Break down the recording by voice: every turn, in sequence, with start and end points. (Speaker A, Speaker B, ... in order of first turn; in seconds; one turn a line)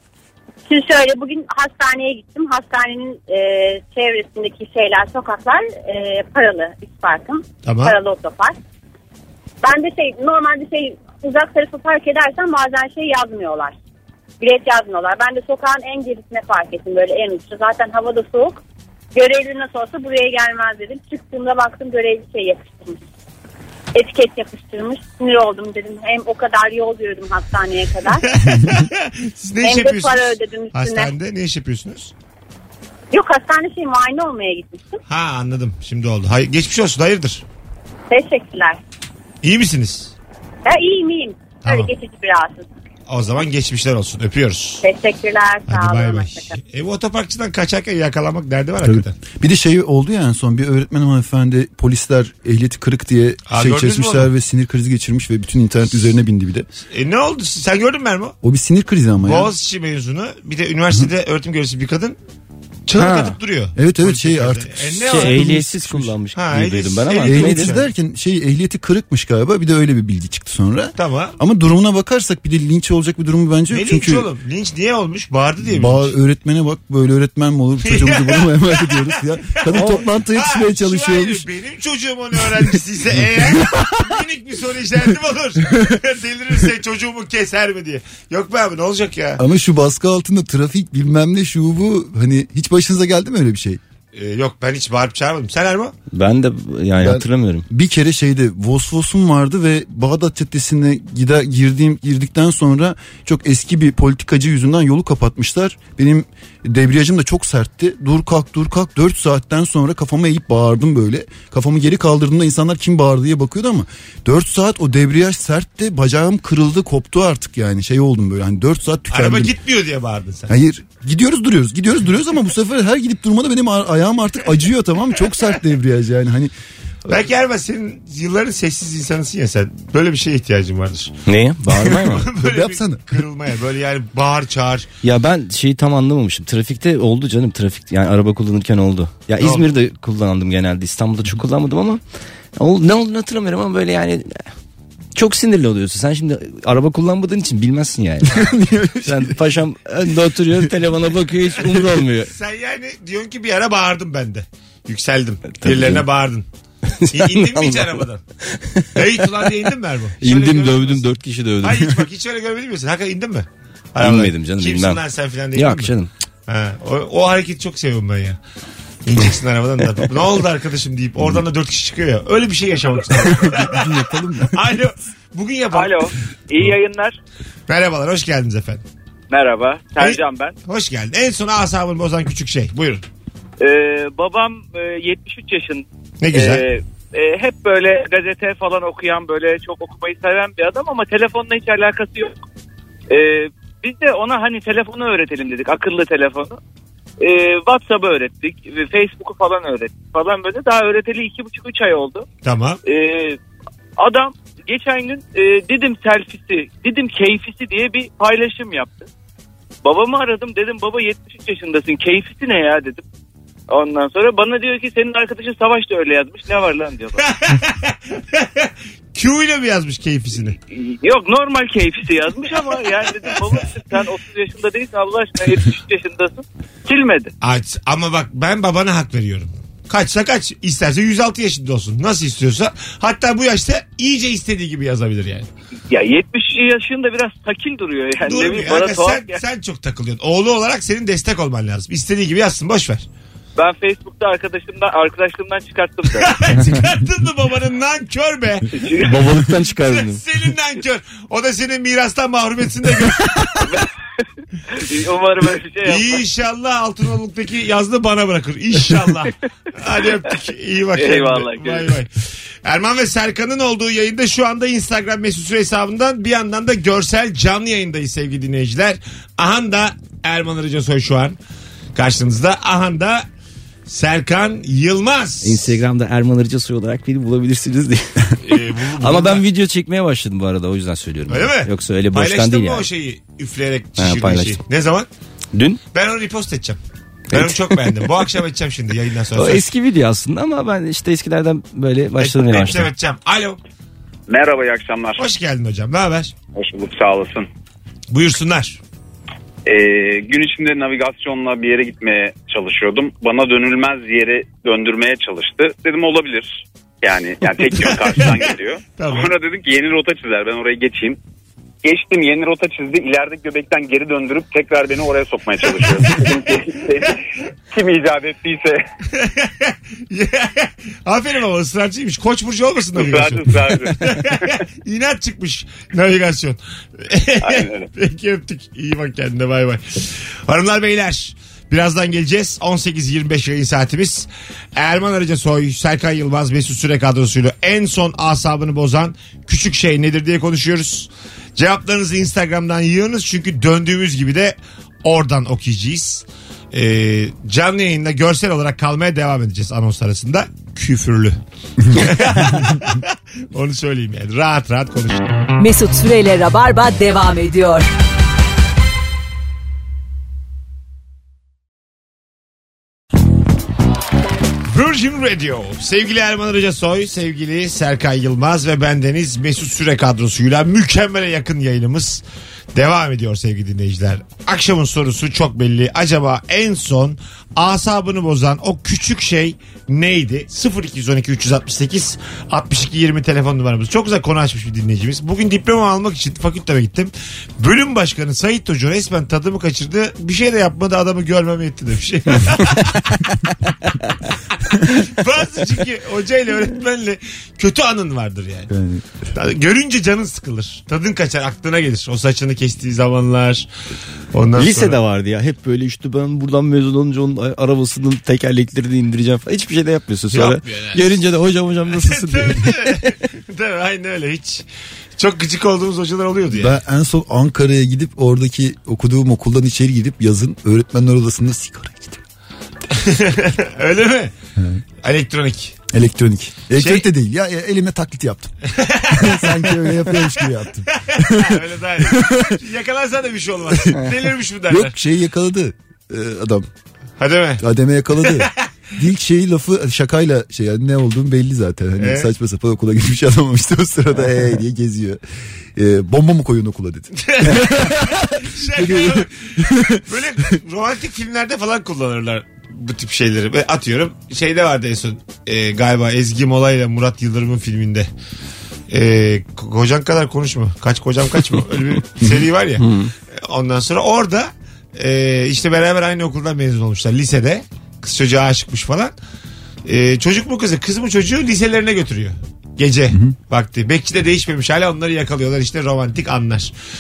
Speaker A: 0.7-8.6
Speaker B: 7.7-8.0
Speaker A: 9.6-13.8
Speaker A: 14.4-18.6
Speaker A: 19.1-23.0
Speaker A: 23.9-28.3
Speaker B: 28.2-32.1
Speaker A: 29.6-31.1
Speaker A: 33.1-35.0
Speaker B: 35.1-37.4
Speaker A: 38.1-38.8
Speaker B: 39.4-40.1
Speaker A: 40.6-42.7
Speaker B: 41.6-41.9
Speaker B: 43.1-44.8
Speaker A: 44.8-46.6
Speaker B: 45.7-49.2
Speaker C: 48.8-56.7
Speaker B: 53.5-54.3
Speaker B: 56.9-58.4
Speaker C: 58.4-59.5
Speaker B: 59.2-62.2
Speaker B: 62.9-65.4
Speaker D: 63.0-63.4
Speaker C: 63.8-66.1
Speaker D: 65.0-67.8
Speaker B: 66.3-67.8
Speaker C: 67.2-74.3
Speaker B: 71.0-71.4
Speaker B: 73.7-76.1
Speaker C: 75.6-81.5
Speaker B: 77.8-89.4
Speaker C: 89.4-93.8
Speaker B: 94.1-96.0
Speaker D: 96.1-97.7
Speaker C: 97.0-119.5
Speaker B: 119.1-120.5
Speaker C: 120.5-126.5
Speaker B: 127.1-131.2
Speaker D: 131.3-132.3
Speaker B: 132.0-134.9
Speaker C: 132.2-133.0
Speaker D: 135.0-142.0
Speaker D: 142.6-144.5
Speaker D: 145.2-148.5
Speaker C: 148.2-149.4
Speaker D: 149.0-152.3
Speaker B: 152.3-156.5
Speaker D: 155.6-156.0
Speaker D: 157.0-158.9
Speaker B: 157.1-158.2
Speaker B: 158.9-161.1
Speaker D: 160.2-161.9
Speaker B: 161.6-165.9
Speaker D: 164.0-165.0
Speaker D: 165.6-166.1
Speaker B: 166.5-168.4
Speaker B: 169.1-173.9
Speaker C: 173.2-174.6
Speaker B: 174.5-176.7
Speaker E: 175.7-177.2
Speaker B: 177.7-178.8
Speaker E: 179.3-180.6
Speaker B: 180.0-183.0
Speaker E: 183.6-192.4
Speaker B: 186.2-186.6
Speaker E: 193.1-196.6
Speaker E: 197.2-202.3
Speaker B: 202.4-202.8
Speaker E: 202.8-203.4
Speaker E: 204.0-209.1
Speaker E: 209.8-213.0
Speaker E: 213.7-217.2
Speaker B: 217.2-220.6
Speaker E: 220.7-227.3
Speaker B: 227.4-235.5
Speaker E: 235.9-239.4
Speaker B: 238.2-243.1
Speaker E: 243.6-246.3
Speaker B: 246.1-248.7
Speaker E: 248.8-249.1
Speaker D: 249.0-250.2
Speaker B: 249.8-253.5
Speaker E: 254.7-256.2
Speaker B: 255.8-262.1
Speaker E: 260.9-261.9
Speaker B: 262.6-271.4
Speaker B: 271.9-273.3
Speaker B: 273.9-275.8
Speaker D: 275.4-282.9
Speaker B: 278.4-279.4
Speaker B: 281.3-285.1
Speaker D: 284.0-284.6
Speaker D: 285.5-285.8
Speaker B: 285.9-286.8
Speaker D: 287.3-287.8
Speaker B: 287.3-289.6
Speaker D: 289.4-292.9
Speaker B: 292.2-293.6
Speaker F: 294.3-295.2
Speaker B: 295.2-296.3
Speaker F: 296.6-297.5
Speaker B: 298.1-298.8
Speaker F: 299.7-311.2
Speaker B: 307.8-309.3
Speaker F: 311.8-318.8
Speaker B: 319.1-351.4
Speaker F: 322.9-324.1
Speaker F: 327.5-327.8
Speaker B: 351.9-355.4
Speaker G: 355.6-357.9
Speaker B: 364.7-372.2
Speaker B: 372.8-393.2
Speaker B: 394.9-398.7
Speaker C: 398.7-399.0
Speaker B: 399.3-403.7
Speaker B: 404.3-405.0
Speaker D: 404.6-413.1
Speaker B: 410.3-411.1
Speaker B: 411.9-416.8
Speaker C: 416.5-422.2
Speaker B: 422.9-424.3
Speaker B: 425.0-425.8
Speaker C: 425.9-428.5
Speaker B: 426.8-427.1
Speaker B: 428.7-430.4
Speaker C: 429.1-432.6
Speaker B: 431.0-434.9
Speaker C: 434.7-436.7
Speaker B: 437.2-437.6
Speaker C: 437.6-445.2
Speaker B: 438.2-438.6
Speaker B: 442.0-442.3
Speaker C: 445.8-450.0
Speaker B: 447.2-458.1
Speaker B: 458.9-462.9
Speaker D: 462.8-463.1
Speaker B: 463.4-469.1
Speaker B: 469.9-476.7